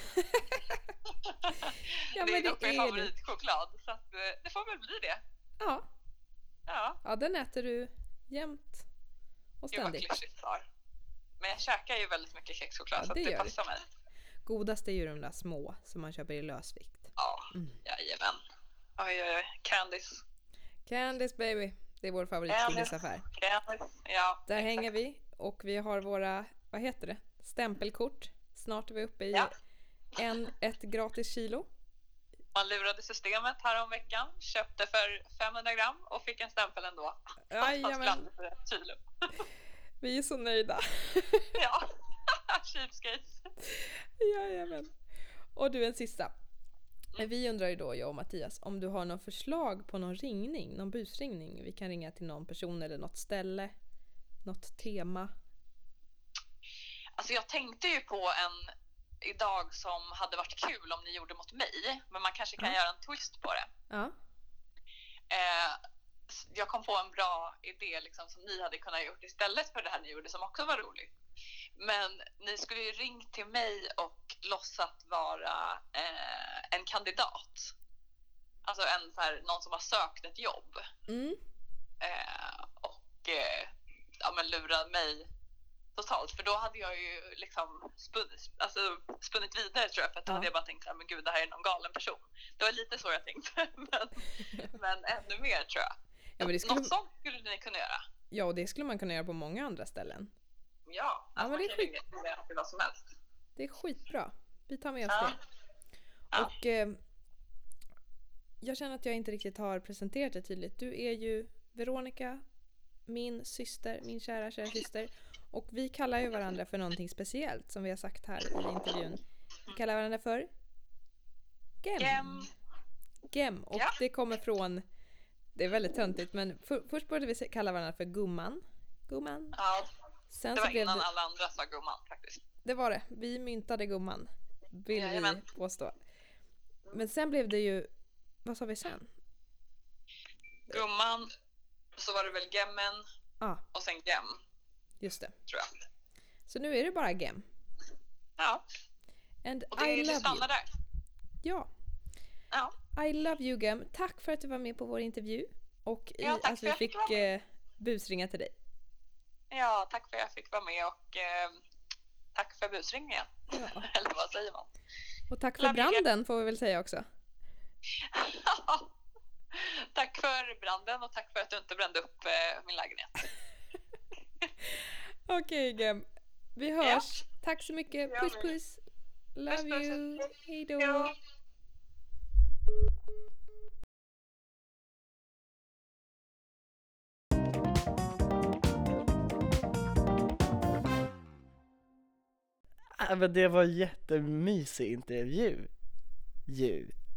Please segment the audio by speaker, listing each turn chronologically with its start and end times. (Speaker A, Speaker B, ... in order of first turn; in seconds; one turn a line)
Speaker A: 0.1-0.8
Speaker B: 1.1-5.2
Speaker A: 2.1-3.1
Speaker A: 5.6-5.9
Speaker B: 6.7-7.0
Speaker A: 7.0-8.8
Speaker A: 9.6-10.2
Speaker B: 9.7-10.6
Speaker B: 11.4-13.8
Speaker A: 13.0-13.5
Speaker A: 14.4-17.8
Speaker B: 17.2-18.4
Speaker B: 19.0-20.2
Speaker A: 20.9-23.2
Speaker B: 22.5-24.8
Speaker A: 24.5-29.5
Speaker A: 30.1-31.7
Speaker B: 32.5-39.4
Speaker A: 37.5-38.2
Speaker A: 40.0-41.6
Speaker B: 41.5-43.5
Speaker A: 43.6-45.0
Speaker A: 45.5-46.3
Speaker A: 47.2-53.7
Speaker A: 54.4-55.3
Speaker B: 57.1-63.7
Speaker A: 63.9-64.1
Speaker B: 65.3-65.8
Speaker B: 66.3-71.1
Speaker B: 71.8-77.7
Speaker B: 78.6-80.8
Speaker A: 81.1-81.4
Speaker B: 82.0-85.3
Speaker B: 85.9-98.0
Speaker A: 96.4-96.9
Speaker A: 98.3-100.3
Speaker B: 100.9-103.0
Speaker A: 101.4-101.9
Speaker A: 103.5-105.4
Speaker B: 105.1-105.3
Speaker A: 106.3-107.0
Speaker A: 108.6-112.4
Speaker A: 113.1-120.5
Speaker A: 121.8-122.5
Speaker B: 122.0-122.5
Speaker A: 123.3-124.8
Speaker A: 125.5-129.6
Speaker B: 129.5-129.9
Speaker A: 130.3-131.1
Speaker B: 130.5-132.4
Speaker A: 132.6-135.9
Speaker B: 134.9-135.4
Speaker A: 136.9-137.9
Speaker A: 138.4-139.1
Speaker B: 140.7-141.3
Speaker B: 142.0-143.0
Speaker B: 143.7-144.4
Speaker A: 145.0-145.3
Speaker A: 146.5-147.5
Speaker A: 149.4-150.5
Speaker B: 149.7-150.7
Speaker A: 151.4-151.7
Speaker A: 152.9-158.5
Speaker B: 156.2-157.3
Speaker B: 159.5-161.6
Speaker B: 162.3-164.7
Speaker A: 163.5-163.9
Speaker A: 165.3-167.1
Speaker B: 165.6-166.0
Speaker B: 168.0-168.9
Speaker B: 169.5-173.3
Speaker A: 174.6-178.8
Speaker B: 178.1-178.5
Speaker A: 179.3-181.1
Speaker B: 179.5-181.1
Speaker C: 192.9-195.7
Speaker C: 196.5-196.9